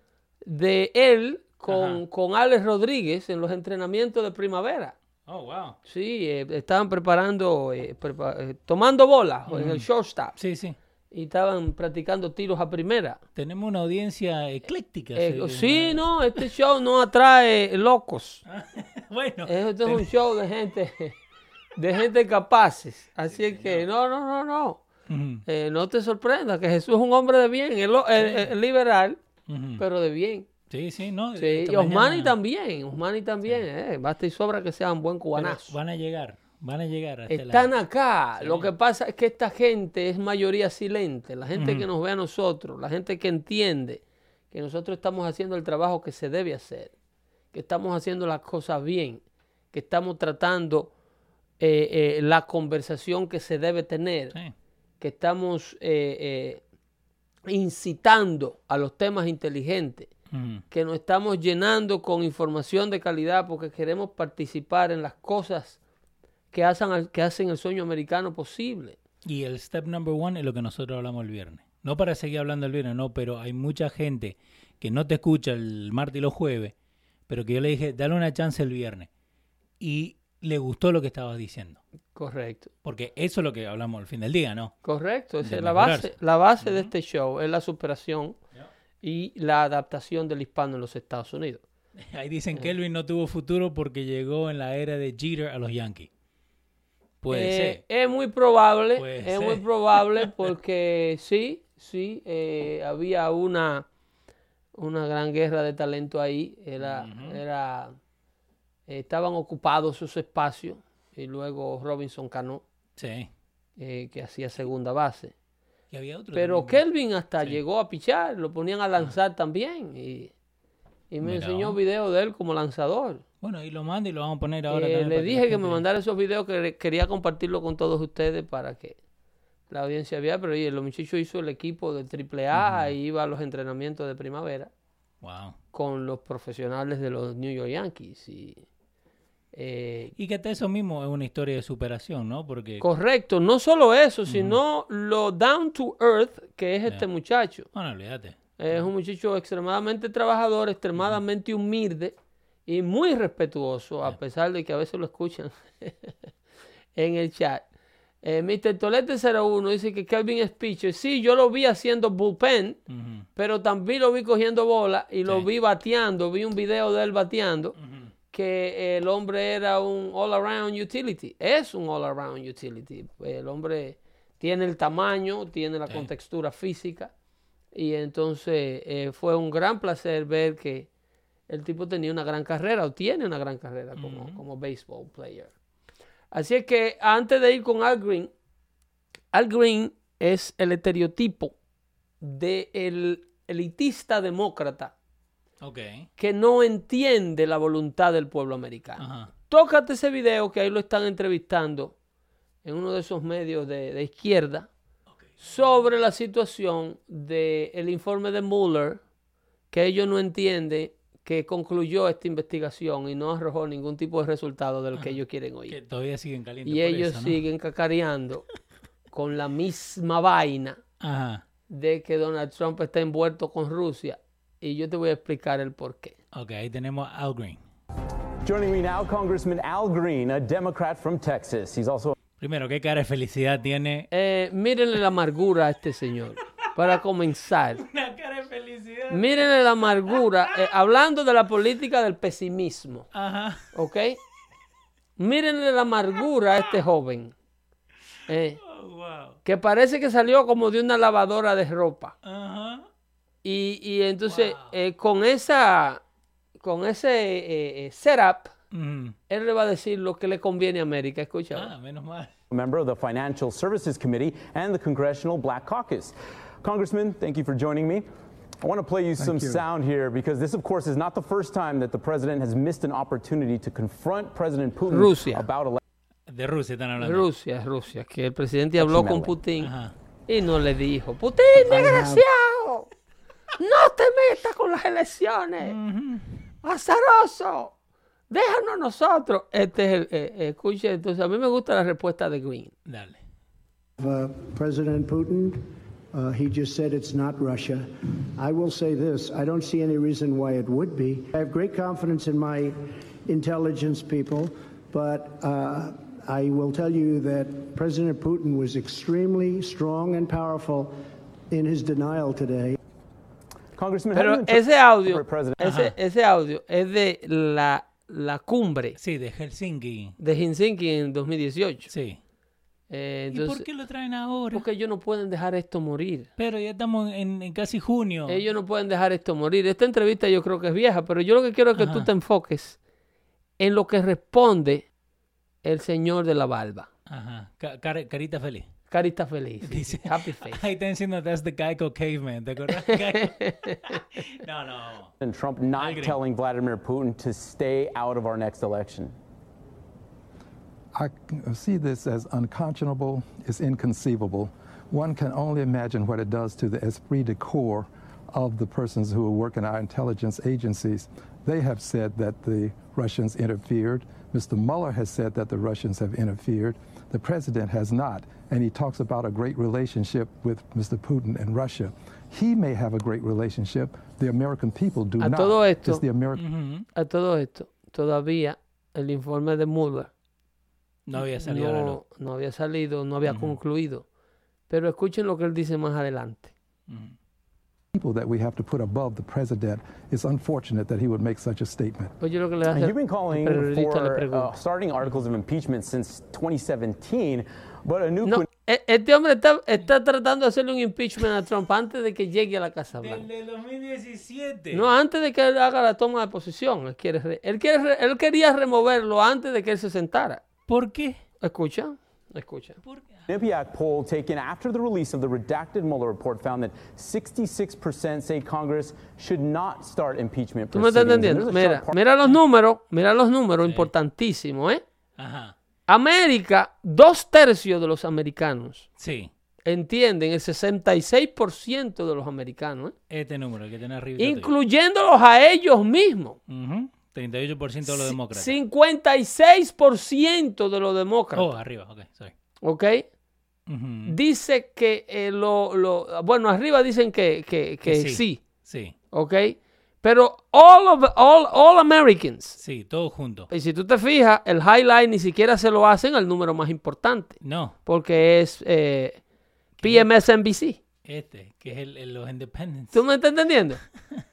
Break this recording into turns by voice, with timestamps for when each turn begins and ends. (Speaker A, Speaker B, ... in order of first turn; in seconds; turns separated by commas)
Speaker A: 0.5-5.0, Speaker B: 1.7-2.0, Speaker B: 5.3-5.8, Speaker A: 5.8-10.4, Speaker B: 9.5-10.8, Speaker A: 11.1-13.2, Speaker B: 13.3-16.4, Speaker A: 15.2-18.4, Speaker B: 18.5-20.1, Speaker A: 19.5-21.1, Speaker A: 21.8-24.8, Speaker B: 23.3-23.9, Speaker B: 25.1-25.4, Speaker A: 25.5-29.2, Speaker B: 28.2-28.5, Speaker B: 29.5-29.9, Speaker A: 29.8-30.5, Speaker B: 30.7-32.3, Speaker A: 31.4-35.7, Speaker B: 35.4-37.7, Speaker A: 37.3-46.9, Speaker B: 38.4-38.7, Speaker B: 41.5-41.9, Speaker A: 47.5-49.2, Speaker A: 49.7-50.9, Speaker A: 51.6-54.4, Speaker A: 55.0-56.6, Speaker A: 57.5-60.1, Speaker B: 60.3-60.6, Speaker A: 60.7-65.8, Speaker A: 66.5-69.0, Speaker B: 69.2-76.7, Speaker B: 77.3-79.1, Speaker B: 79.8-81.8, Speaker A: 82.2-82.7, Speaker B: 82.8-84.8, Speaker A: 84.8-88.4, Speaker B: 85.4-86.9, Speaker A: 89.0-91.6, Speaker B: 92.0-96.1, Speaker B: 97.2-97.8, Speaker A: 97.3-103.9, Speaker B: 99.0-100.5, Speaker A: 104.8-108.0, Speaker B: 106.8-107.4, Speaker A: 108.9-112.6, Speaker B: 113.0-113.3, Speaker A: 113.8-115.3, Speaker B: 115.9-116.8, Speaker A: 116.3-120.3, Speaker A: 121.1-123.2, Speaker B: 121.2-121.8, Speaker B: 123.4-125.8, Speaker A: 124.7-129.0, Speaker A: 129.7-134.7, Speaker B: 132.5-132.9, Speaker B: 135.2-135.6, Speaker A: 135.7-138.6, Speaker A: 139.5-140.1, Speaker B: 140.2-142.8, Speaker A: 142.8-147.7, Speaker B: 144.3-144.6, Speaker B: 147.7-148.9, Speaker A: 148.6-152.2, Speaker A: 152.7-156.2, Speaker A: 156.9-157.6, Speaker A: 158.2-162.8, Speaker B: 162.9-163.3, Speaker A: 163.4-167.8, Speaker B: 167.8-168.1, Speaker A: 168.3-177.1, Speaker A: 177.7-180.9, Speaker A: 181.5-185.5, Speaker B: 184.0-184.4, Speaker A: 186.3-188.3, Speaker A: 189.3-191.6, Speaker A: 192.2-194.9, Speaker B: 195.6-196.1, Speaker A: 196.2-201.9, Speaker B: 199.0-199.3, Speaker A: 202.6-204.7, Speaker A: 205.4-209.0, Speaker A: 209.7-215.8, Speaker B: 215.0-217.4, Speaker A: 216.7-218.5, Speaker A: 219.1-220.8, Speaker B: 221.0-221.4, Speaker A: 221.7-226.2, Speaker B: 226.3-227.6, Speaker C: 228.4-232.1, Speaker B: 232.4-234.1, Speaker A: 234.1-237.8, Speaker B: 237.8-240.6, Speaker A: 239.1-243.1, Speaker B: 243.1-243.7, Speaker A: 243.7-244.2, Speaker A: 245.2-247.3, Speaker A: 248.3-248.6, Speaker B: 248.6-249.4, Speaker A: 249.4-252.1, Speaker B: 252.2-252.9, Speaker A: 253.4-256.0, Speaker B: 254.3-254.7, Speaker A: 256.6-258.5, Speaker B: 258.7-259.2, Speaker A: 259.3-261.7, Speaker B: 261.5-262.3, Speaker C: 262.5-268.1, Speaker C: 268.6-275.8, Speaker D: 269.2-269.6, Speaker A: 274.9-275.5, Speaker B: 276.3-277.3, Speaker A: 277.0-279.7, Speaker C: 278.8-279.4, Speaker B: 279.6-279.9, Speaker A: 280.3-282.9, Speaker E: 281.7-282.2, Speaker A: 283.6-285.8, Speaker B: 285.6-286.4, Speaker A: 286.6-287.7, Speaker A: 288.3-292.7, Speaker B: 292.9-293.2, Speaker E: 294.0-310.9, Speaker E: 311.5-312.8, Speaker C: 313.8-315.7, Speaker A: 314.1-319.0, Speaker B: 315.6-315.9, Speaker B: 319.0-320.2, Speaker A: 320.2-321.9, Speaker B: 321.9-322.2, Speaker A: 322.9-323.7, Speaker B: 323.3-324.6, Speaker A: 324.5-326.3, Speaker B: 326.4-328.4, Speaker A: 328.3-332.8, Speaker B: 331.8-332.1, Speaker A: 333.6-334.9, Speaker A: 335.6-336.9, Speaker B: 337.1-338.7, Speaker A: 338.9-340.6, Speaker B: 339.6-345.1, Speaker A: 342.8-344.0, Speaker C: 345.2-349.1, Speaker B: 345.8-346.2, Speaker D: 350.9-376.5, Speaker A: 375.2-376.0, Speaker B: 376.3-376.9, Speaker A: 376.9-380.1, Speaker B: 381.1-382.0, Speaker A: 381.2-384.0, Speaker B: 383.3-383.6, Speaker A: 384.7-386.5, Speaker B: 386.9-387.1, Speaker D: 387.9-392.1, Speaker A: 392.2-394.5, Speaker C: 392.7-398.5, Speaker A: 398.2-403.2, Speaker B: 402.9-404.9, Speaker A: 404.7-410.4, Speaker B: 410.7-411.2, Speaker A: 411.4-412.8, Speaker B: 412.9-413.2, Speaker C: 413.3-422.0, Speaker A: 420.7-424.8, Speaker B: 423.6-423.9, Speaker B: 425.2-425.6, Speaker A: 425.9-428.9, Speaker B: 429.0-429.3, Speaker A: 429.6-432.9, Speaker B: 433.1-434.5, Speaker A: 434.2-436.4, Speaker B: 436.5-438.6, Speaker A: 437.9-441.6, Speaker B: 441.3-442.3, Speaker A: 442.6-443.1, Speaker B: 443.7-444.2, Speaker A: 444.1-448.4, Speaker B: 447.9-448.9, Speaker A: 449.1-452.6, Speaker B: 452.6-453.5, Speaker A: 453.5-459.2, Speaker B: 457.4-457.8, Speaker B: 459.8-460.1, Speaker A: 459.8-460.8, Speaker B: 461.1-463.0, Speaker A: 462.9-463.8